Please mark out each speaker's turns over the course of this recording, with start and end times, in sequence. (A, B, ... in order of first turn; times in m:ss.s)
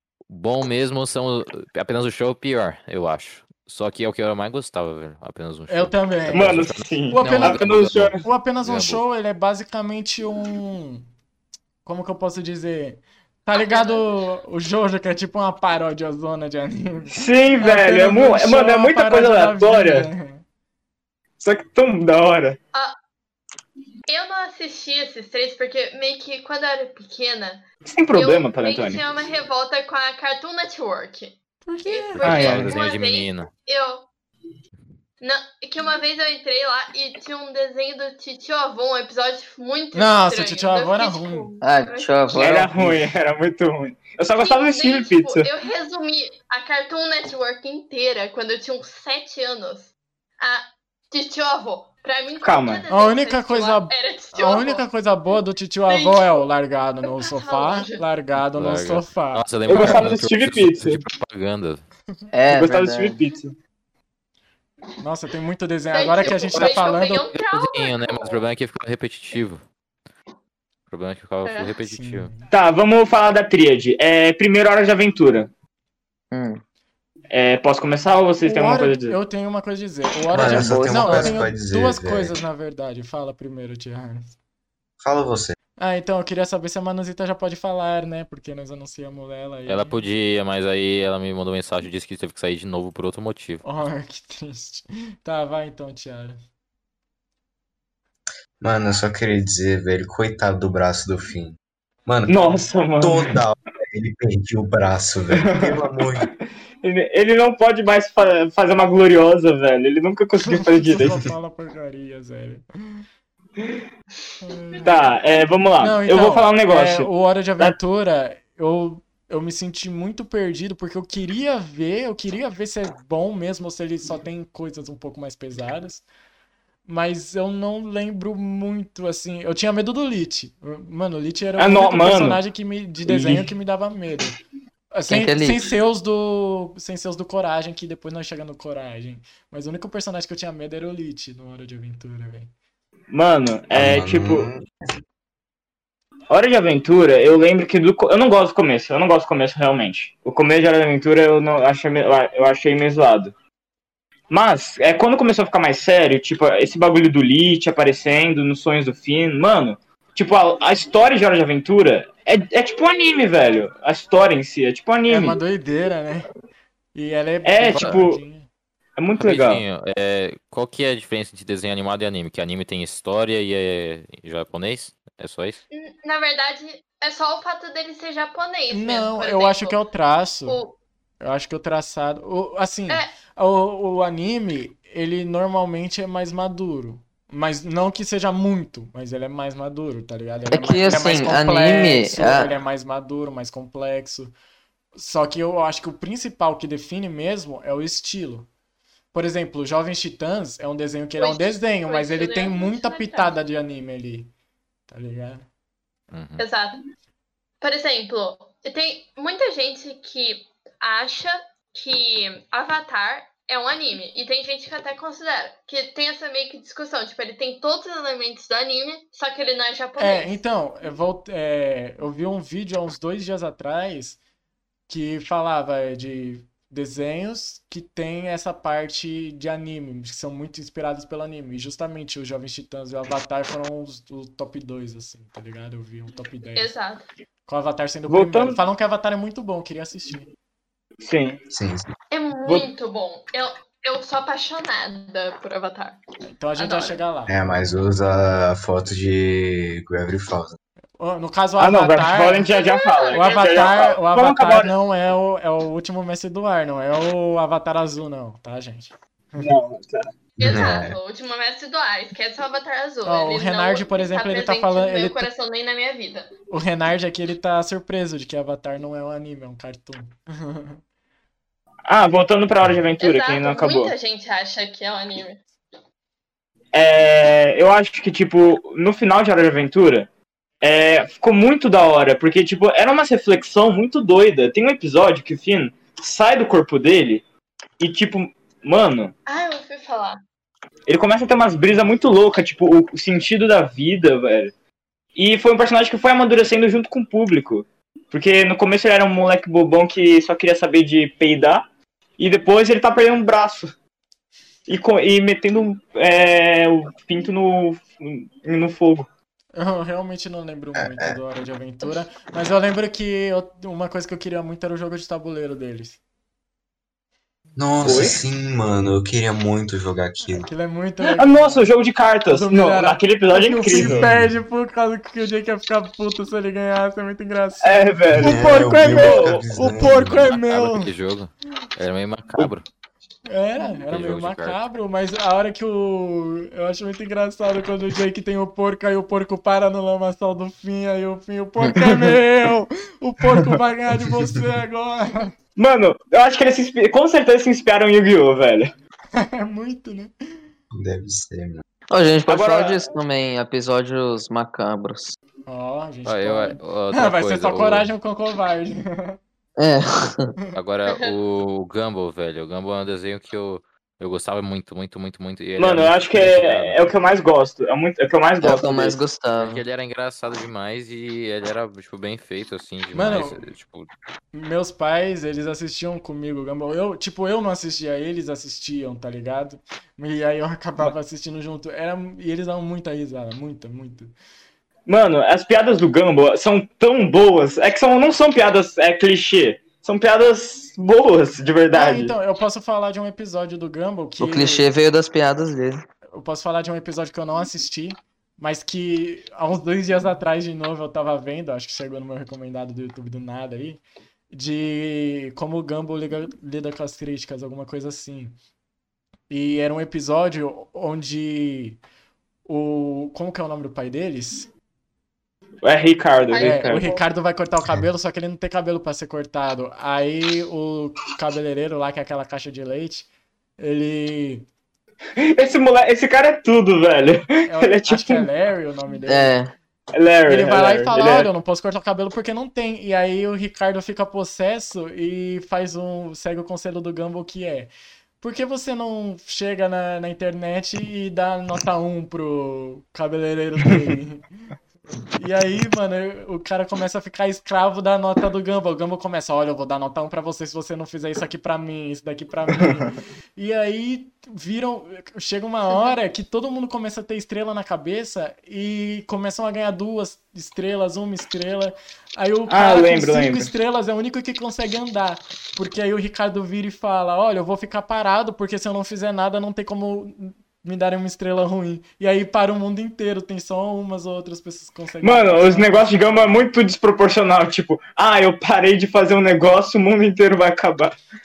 0:00.3-0:09.0 A
0:05.7-0:07.7 B
0:06.3-0:08.2 C
0:08.2-0:11.1 B
0:11.8-0:20.4 B
0:13.5-0:14.1 D
0:17.1-0:20.1 C
0:21.4-0:22.6 C
0:24.1-0:34.1 D
0:27.8-0:29.2 C
0:31.7-0:32.8 B
0:32.2-0:33.5 A
0:32.2-0:32.7 C
0:35.2-0:42.2 D
0:39.9-0:41.5 B
0:41.6-0:43.1 E
0:42.4-0:45.5 C
0:44.4-0:54.8 D
0:52.4-0:52.9 C
0:52.9-1:00.2 B
0:55.9-0:56.4 D
0:57.1-0:58.0 D
0:58.4-1:01.8 A
0:59.7-1:01.0 C
1:02.3-1:03.2 E
1:02.5-1:03.6 C
1:05.0-1:07.2 B
1:05.9-1:08.4 D
1:07.3-1:09.6 A
1:10.9-1:12.3 A
1:11.4-1:11.8 D
1:11.9-1:12.5 B
1:12.5-1:15.5 C
1:16.3-1:16.6 E
1:17.3-1:19.2 C
1:18.4-1:24.4 B
1:20.3-1:22.4 F
1:20.3-1:21.4 E
1:25.0-1:25.6 F
1:25.8-1:30.0 B
1:29.7-1:33.6 A
1:33.6-1:36.4 B
1:38.6-1:46.3 F
1:42.3-1:43.4 C
1:45.3-1:46.2 C
1:46.8-1:51.1 C
1:50.4-1:53.0 B
1:54.4-1:55.0 B
1:54.8-1:57.8 C
1:55.8-2:06.0 B
2:06.9-2:14.4 B
2:11.6-2:12.4 C
2:13.1-2:13.5 C
2:14.9-2:22.5 B
2:15.1-2:15.7 E
2:23.1-2:24.5 C
2:23.7-2:24.6 F
2:26.3-2:33.3 C
2:34.3-2:45.4 C
2:45.1-2:46.3 B
2:46.9-2:48.5 B
2:47.4-2:48.2 C
2:49.0-2:49.6 C
2:49.2-2:55.6 A
2:55.7-2:59.8 D
2:58.7-3:00.6 B
3:00.5-3:00.8 D
3:01.2-3:14.3 B
3:02.9-3:03.1 D
3:10.5-3:12.5 E
3:15.0-3:18.5 B
3:19.1-3:24.3 B
3:21.2-3:23.4 D
3:24.9-3:25.5 B
3:26.1-3:26.4 A
3:26.4-3:26.8 D
3:27.6-3:40.4 D
3:40.0-3:44.2 B
3:44.9-3:56.8 B
3:56.6-3:57.1 D
3:57.5-4:00.3 B
3:58.1-3:58.6 C
4:01.0-4:01.4 C
4:01.5-4:01.9 F
4:02.1-4:06.0 D
4:06.2-4:07.3 B
4:06.6-4:07.0 D
4:07.3-4:10.6 F
4:11.0-4:12.5 B
4:11.6-4:14.7 C
4:12.5-4:14.0 D
4:13.1-4:19.5 B
4:19.4-4:20.1 C
4:20.4-4:21.0 F
4:20.4-4:26.3 D
4:23.0-4:25.3 B
4:26.5-4:30.8 B
4:31.9-4:33.9 C
4:33.0-4:35.4 D
4:36.7-4:40.1 C
4:40.6-4:47.2 C
4:47.8-4:49.1 C
4:49.3-4:50.2 D
4:50.9-4:54.5 C
4:55.2-5:01.6 C
5:02.2-5:03.7 C
5:04.7-5:09.1 C
5:09.6-5:16.0 B
5:10.8-5:11.2 F
5:17.6-5:20.5 F
5:17.8-5:18.2 C
5:20.3-5:21.7 B
5:21.0-5:24.1 C
5:22.3-5:30.9 B
5:23.7-5:24.3 F
5:27.6-5:29.5 C
5:28.1-5:30.3 F
5:29.9-5:32.7 A
5:33.3-5:45.4 B
5:33.9-5:34.6 A
5:45.6-5:48.7 C
5:49.1-5:50.1 B
5:50.7-5:51.6 F
5:51.9-5:55.2 E
5:52.3-5:52.9 C
5:55.5-5:59.2 B
5:56.0-5:57.9 A
5:59.6-6:00.3 E
6:00.5-6:06.9 A
6:00.9-6:01.2 D
6:05.6-6:09.0 C
6:08.4-6:09.6 E
6:09.4-6:13.9 A
6:12.9-6:13.4 B
6:14.3-6:24.1 B
6:24.9-6:32.1 C
6:31.7-6:34.7 B
6:34.2-6:35.8 E
6:36.1-6:48.4 B
6:49.3-6:51.8 B
6:52.5-6:54.5 B
6:55.6-6:56.9 C
6:56.3-6:57.0 D
6:56.4-7:04.5 B
7:05.2-7:08.3 C
7:07.5-7:09.4 B
7:09.1-7:09.5 E
7:09.9-7:11.3 C
7:10.3-7:24.3 B
7:25.1-7:56.5 B
7:42.5-7:43.5 C
7:55.0-8:01.0 C